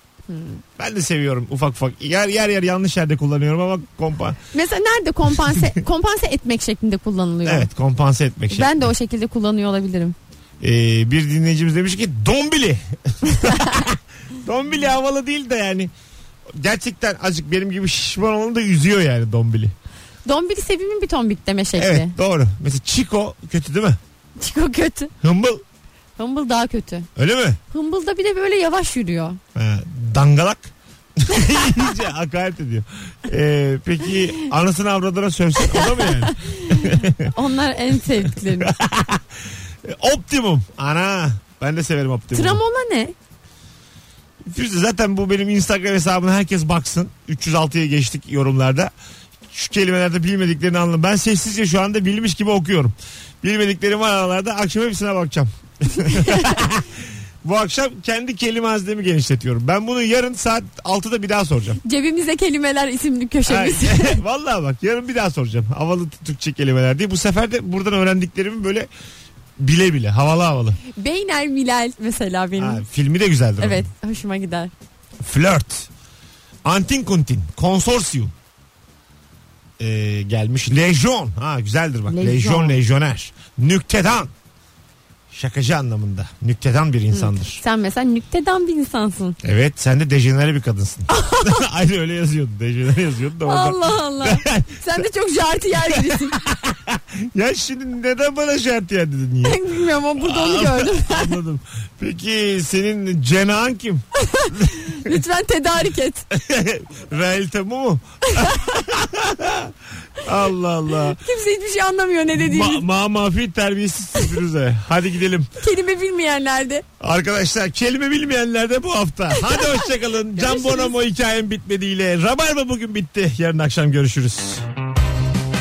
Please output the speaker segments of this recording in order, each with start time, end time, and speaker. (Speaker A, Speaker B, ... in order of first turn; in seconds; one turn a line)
Speaker A: 0.3-0.6
Speaker B: 0.8-4.4
Speaker A: 4.5-7.7
Speaker B: 5.4-5.8
Speaker B: 7.4-8.9
Speaker A: 8.5-10.2
Speaker B: 10.6-15.9
Speaker A: 13.3-13.7
Speaker B: 16.5-19.7
Speaker A: 20.2-22.1
Speaker B: 21.8-24.0
Speaker A: 24.4-25.1
Speaker B: 25.2-25.6
Speaker A: 26.2-27.1
Speaker B: 27.1-27.6
Speaker A: 27.7-29.4
Speaker B: 29.5-37.3
Speaker A: 35.6-38.7
Speaker B: 38.2-42.6
Speaker A: 42.3-43.1
Speaker B: 44.4-48.9
Speaker B: 49.5-61.8
Speaker A: 56.0-56.5
Speaker A: 61.8-64.2
Speaker B: 63.5-68.9
Speaker B: 69.6-70.8
Speaker A: 70.9-72.8
Speaker B: 72.6-73.9
Speaker A: 73.6-74.7
Speaker B: 75.2-75.9
Speaker B: 76.6-78.3
Speaker B: 79.8-84.3
Speaker A: 82.1-82.8
Speaker B: 85.3-87.6
Speaker A: 87.1-89.4
Speaker B: 89.4-95.1
Speaker A: 91.1-91.6
Speaker A: 93.4-96.4
Speaker B: 95.9-99.6
Speaker A: 99.4-101.4
Speaker B: 100.2-105.2
Speaker A: 104.2-106.2
Speaker B: 106.3-111.2
Speaker A: 108.3-108.6
Speaker A: 111.2-112.9
Speaker B: 112.3-115.5
Speaker A: 115.6-116.8
Speaker B: 117.0-124.6
Speaker A: 119.4-120.9